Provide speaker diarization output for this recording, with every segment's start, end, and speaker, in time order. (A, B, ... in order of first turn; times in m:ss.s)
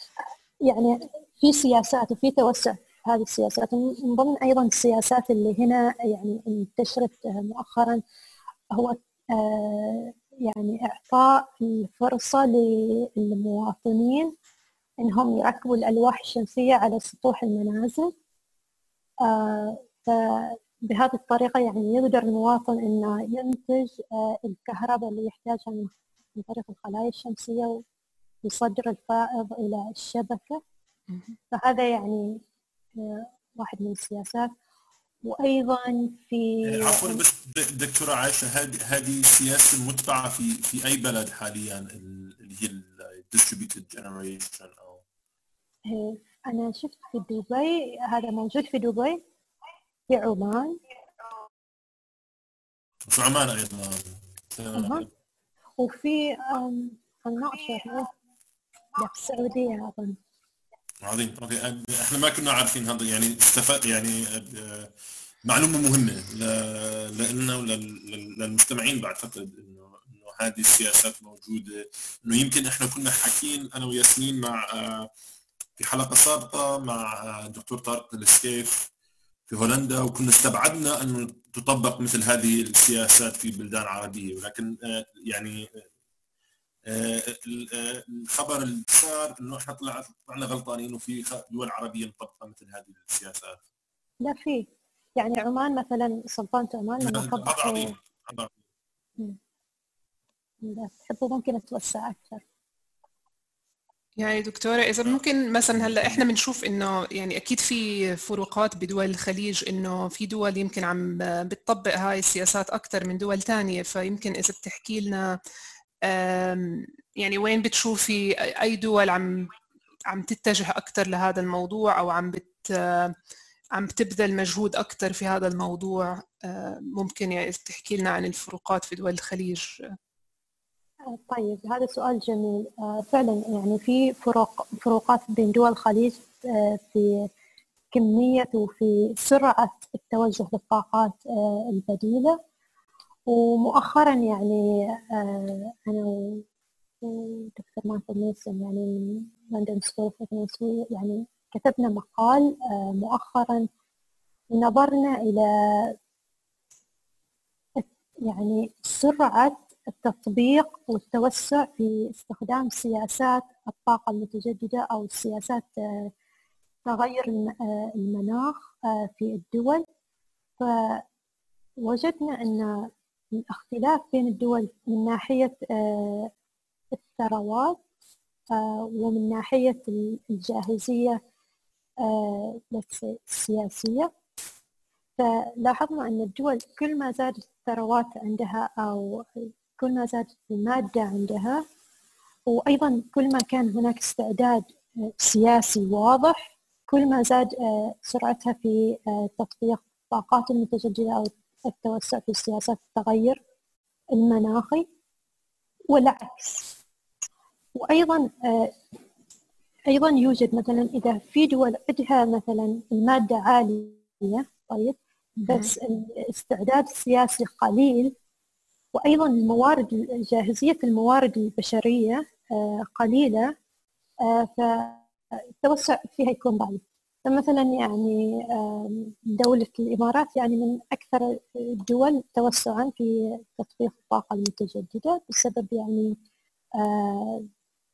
0:00.6-0:08.0 A
0:08.7-0:14.3 A
0:15.0-0:18.1 A
0:19.2-0:27.8 A
0:28.4-0:30.6 A
0:31.1-0:31.4 B
0:31.5-0:32.4 A
0:33.0-0:34.5 A
0:35.2-0:37.2 A
0:36.6-0:45.0 C
0:45.9-0:49.2 A
0:50.1-0:50.8 A
0:53.1-0:55.0 C
0:54.7-0:55.0 A
0:55.8-0:58.1 A
0:59.0-1:00.2 A
1:01.0-1:04.9 C
1:05.4-1:15.1 C
1:15.8-1:18.9 C
1:19.5-1:25.8 C
1:26.9-1:33.6 C
1:34.2-1:34.7 A
1:35.2-1:37.9 A
1:37.0-1:38.6 C
1:40.6-1:42.4 A
1:44.2-1:55.3 B
1:45.8-1:46.2 C
1:56.0-1:59.5 B
2:00.1-2:03.2 B
2:03.7-2:09.8 B
2:11.1-2:17.2 A
2:17.9-2:22.4 A
2:23.3-2:24.6 A
2:25.1-2:26.4 A
2:27.0-2:28.9 A
2:29.5-2:33.6 A
2:34.5-2:35.9 A
2:37.8-2:46.1 A
2:46.8-2:49.8 A
2:50.6-2:51.0 A
2:51.8-2:52.9 A
2:53.5-2:56.3 A
2:57.0-2:57.8 A
2:58.5-3:01.2 A
3:02.0-3:04.1 A
3:05.2-3:11.6 A
3:12.5-3:23.4 A
3:24.1-3:24.8 A
3:25.9-3:26.8 A
3:27.8-3:28.7 A
3:29.9-3:38.1 A
3:35.5-3:35.7 B
3:38.9-3:43.4 A
3:44.2-3:45.1 A
3:45.6-3:56.2 A
3:56.8-3:57.5 A